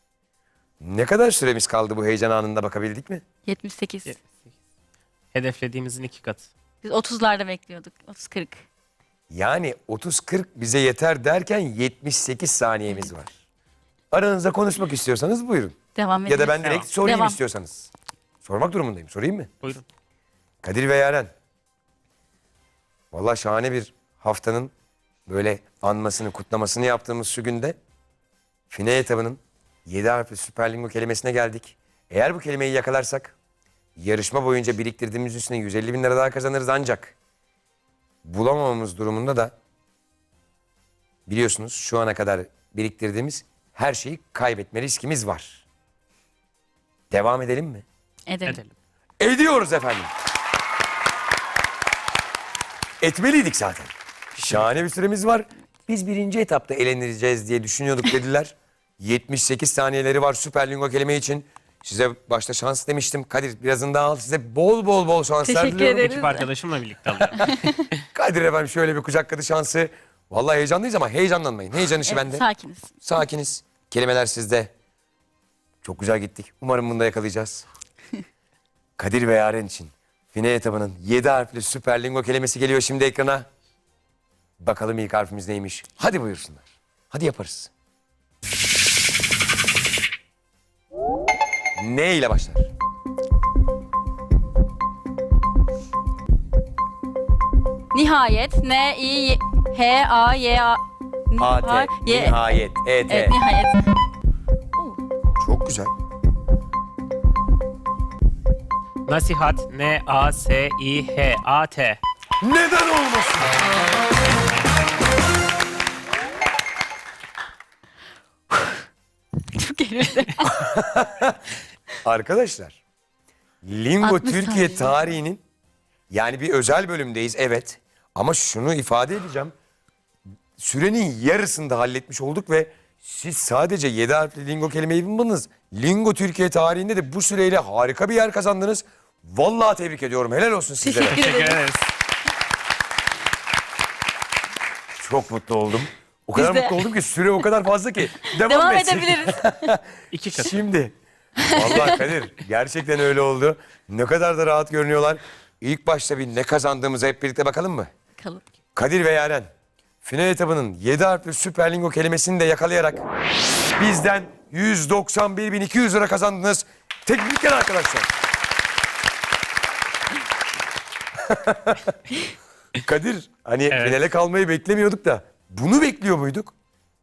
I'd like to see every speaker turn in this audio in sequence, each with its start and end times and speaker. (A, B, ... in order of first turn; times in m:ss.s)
0:00.8-0:03.2 A
0:03.5-0:04.2 B
0:05.3-0:06.5 C
0:06.8-0:08.6 B
0:09.3-0:13.3 A
0:14.1-0:17.9 A
0:15.9-0:17.4 B
0:18.4-0:19.5 A
0:20.6-0:21.3 A
0:23.1-0:24.7 A
0:25.3-0:27.8 A
0:28.7-0:33.4 A
0:34.0-0:37.1 A
0:38.2-0:39.5 A
0:41.3-0:45.6 A
0:47.1-0:47.8 A
0:48.3-0:48.6 B
0:48.5-0:48.7 C
0:49.2-0:50.1 A
0:53.0-1:06.1 A
0:54.4-0:54.7 C
1:05.4-1:06.5 B
1:05.9-1:08.0 C
1:07.4-1:07.7 B
1:08.1-1:12.4 A
1:12.0-1:12.9 B
1:13.0-1:14.7 A
1:15.8-1:17.6 A
1:19.0-1:23.5 A
1:24.6-1:27.7 A
1:31.8-1:32.7 A
1:37.9-1:42.4 B
1:41.4-1:43.4 A
1:43.0-1:43.9 B
1:45.4-1:45.9 A
1:49.0-1:52.0 C
1:52.4-1:53.5 A
1:59.5-2:00.6 B
2:00.5-2:01.4 A
2:02.0-2:02.8 A
2:03.6-2:05.4 A
2:04.0-2:05.1 B
2:06.1-2:09.5 A
2:10.6-2:21.2 A
2:20.8-2:21.6 B
2:21.1-2:21.9 C
2:25.0-2:30.9 A
2:26.4-2:26.8 B
2:28.2-2:29.7 B
2:30.1-2:30.6 C
2:31.4-2:32.0 B
2:31.5-2:37.9 A
2:38.2-2:38.4 B
2:38.7-2:39.5 A
2:40.0-2:43.0 A
2:43.8-2:48.1 A
2:51.3-2:52.0 A
2:52.8-2:56.5 A
2:53.7-2:54.0 C